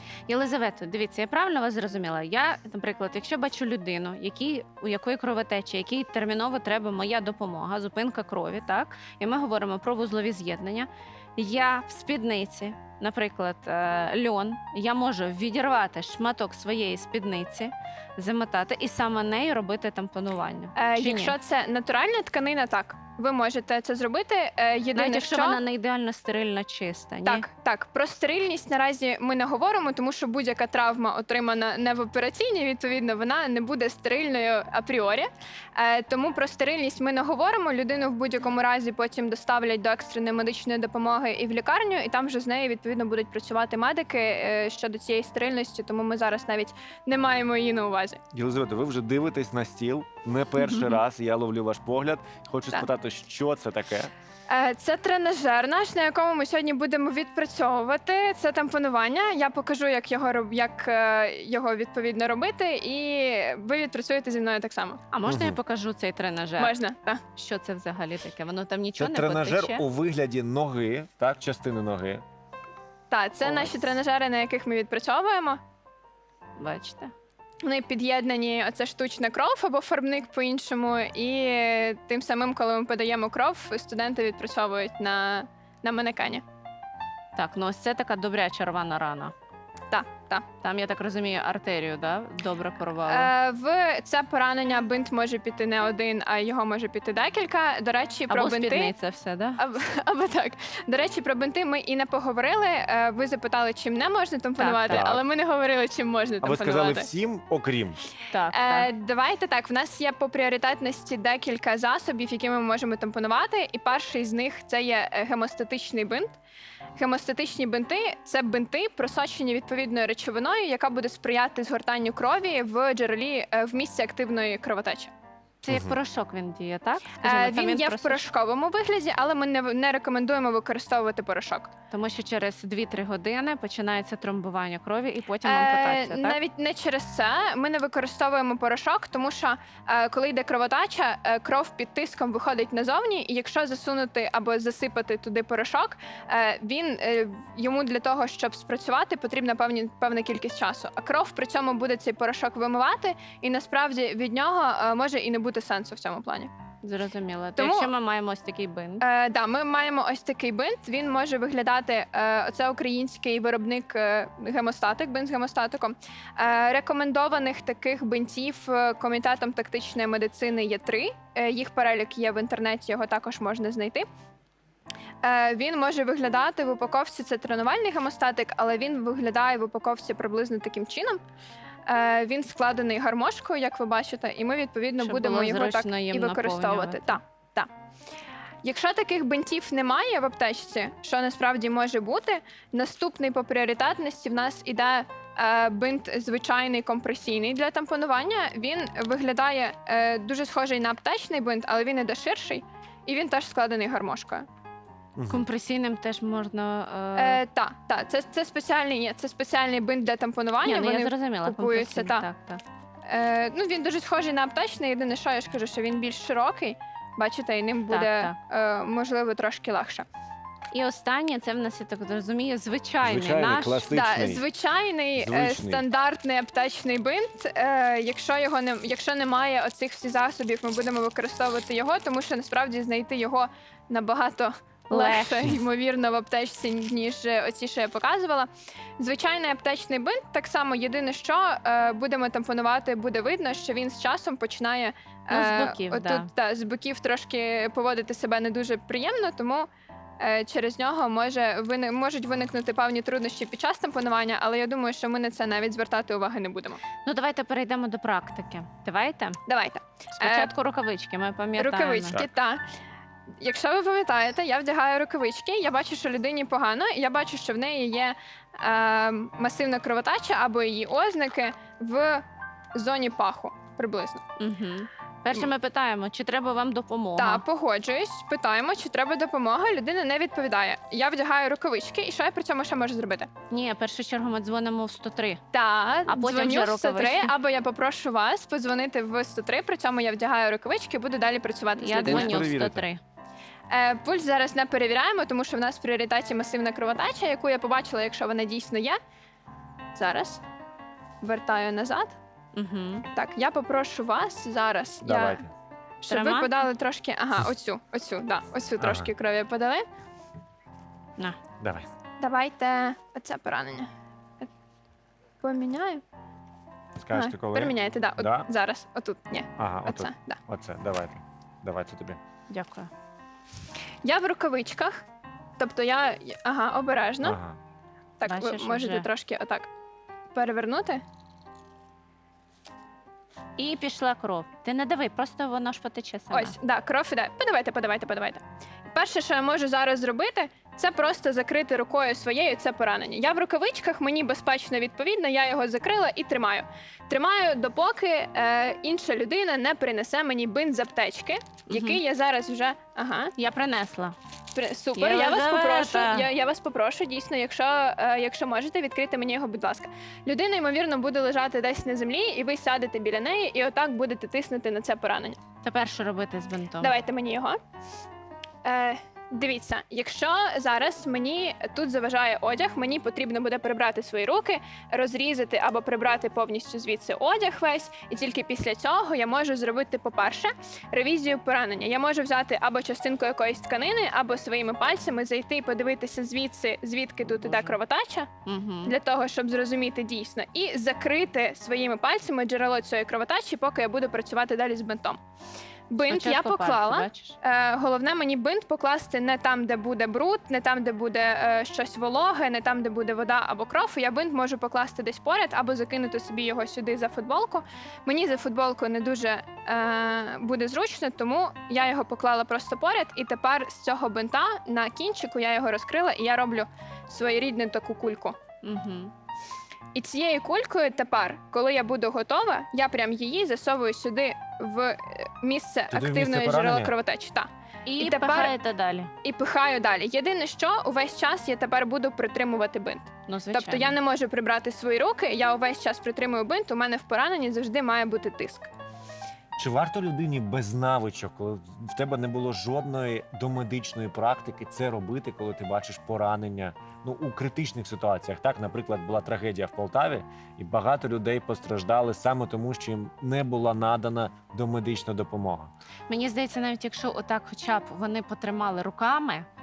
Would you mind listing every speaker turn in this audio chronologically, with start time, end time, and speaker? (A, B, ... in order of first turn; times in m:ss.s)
0:00.3-0:21.3 A
0:20.7-0:25.6 B
0:24.9-0:27.4 A
0:27.2-0:48.2 B
0:48.3-0:54.1 C
0:54.5-1:05.0 B
1:05.1-1:06.7 A
1:05.2-1:05.6 C
1:06.6-1:07.2 B
1:07.4-1:09.8 A
1:09.0-1:12.2 C
1:13.1-1:15.6 B
1:16.6-1:17.1 A
1:17.6-1:26.4 B
1:27.4-1:29.3 A
1:29.9-1:30.4 B
1:30.6-1:33.3 A
1:33.1-1:38.9 B
1:38.3-1:39.6 A
1:39.6-1:47.1 B
1:44.6-1:45.0 A
1:44.9-1:45.2 C
1:46.4-1:48.1 C
1:48.3-1:48.9 A
1:48.5-1:56.3 B
1:57.0-2:05.1 B
2:05.6-2:08.2 A
2:05.7-2:06.0 C
2:07.2-2:11.7 B
2:11.9-2:16.4 A
2:15.4-2:36.5 B
2:36.8-2:39.0 A
2:37.6-2:37.9 B
2:39.0-2:54.0 B
2:55.2-3:01.2 B
3:01.9-3:07.7 B
3:05.0-3:07.2 A
3:08.6-3:24.4 B
3:25.2-3:25.4 C
3:25.3-3:27.4 A
3:27.2-3:32.2 B
3:30.6-3:32.6 A
3:33.1-3:40.0 B
3:37.9-3:38.3 A
3:40.7-3:43.8 A
3:43.0-3:44.4 C
3:43.9-3:58.5 B
3:45.2-3:45.8 C
3:54.9-3:55.6 A
3:59.0-4:09.7 B
4:05.3-4:06.3 A
4:10.2-4:16.8 B
4:17.0-4:19.4 A
4:19.5-4:20.5 B
4:20.2-4:22.2 A
4:21.6-4:22.6 B
4:23.4-4:32.2 B
4:32.7-4:34.2 B
4:34.4-4:37.4 A
4:37.2-4:43.3 B
4:43.5-4:45.4 A
4:45.5-4:52.5 B
4:46.1-4:47.3 A
4:51.8-4:53.0 A
4:52.0-4:52.8 C
4:53.7-4:59.0 B
4:59.9-5:00.4 B
5:01.2-5:02.1 B
5:02.5-5:03.0 A
5:03.1-5:05.4 B
5:05.0-5:05.5 C
5:06.0-5:09.8 B
5:06.1-5:06.5 A
5:08.8-5:09.1 C
5:11.6-5:11.9 C
5:12.2-5:13.9 B
5:15.4-5:16.0 B
5:17.0-5:18.5 C
5:17.1-5:20.4 B
5:19.6-5:22.2 C
5:22.5-5:22.9 A
5:24.0-5:25.0 B
5:25.6-5:27.4 B
5:27.2-5:27.6 C
5:28.2-5:29.7 B
5:28.2-5:29.1 A
5:30.3-5:31.0 B
5:33.6-5:36.5 A
5:36.3-5:53.3 B
5:51.7-5:52.0 A
5:53.4-5:54.2 A
5:54.5-6:05.4 B
5:55.0-5:56.2 A
6:05.6-6:06.9 A
6:06.8-6:07.6 B
6:08.6-6:28.3 B
6:27.3-6:27.8 A
6:28.4-6:28.9 A
6:28.8-6:35.2 B
6:35.9-6:58.4 B
6:36.1-6:37.4 A
6:58.6-6:59.1 A
6:59.9-7:08.5 B
7:05.9-7:06.9 C
7:07.8-7:09.1 A
7:09.2-7:18.7 B
7:13.3-7:14.0 A
7:19.6-7:35.7 C
7:36.1-7:39.4 A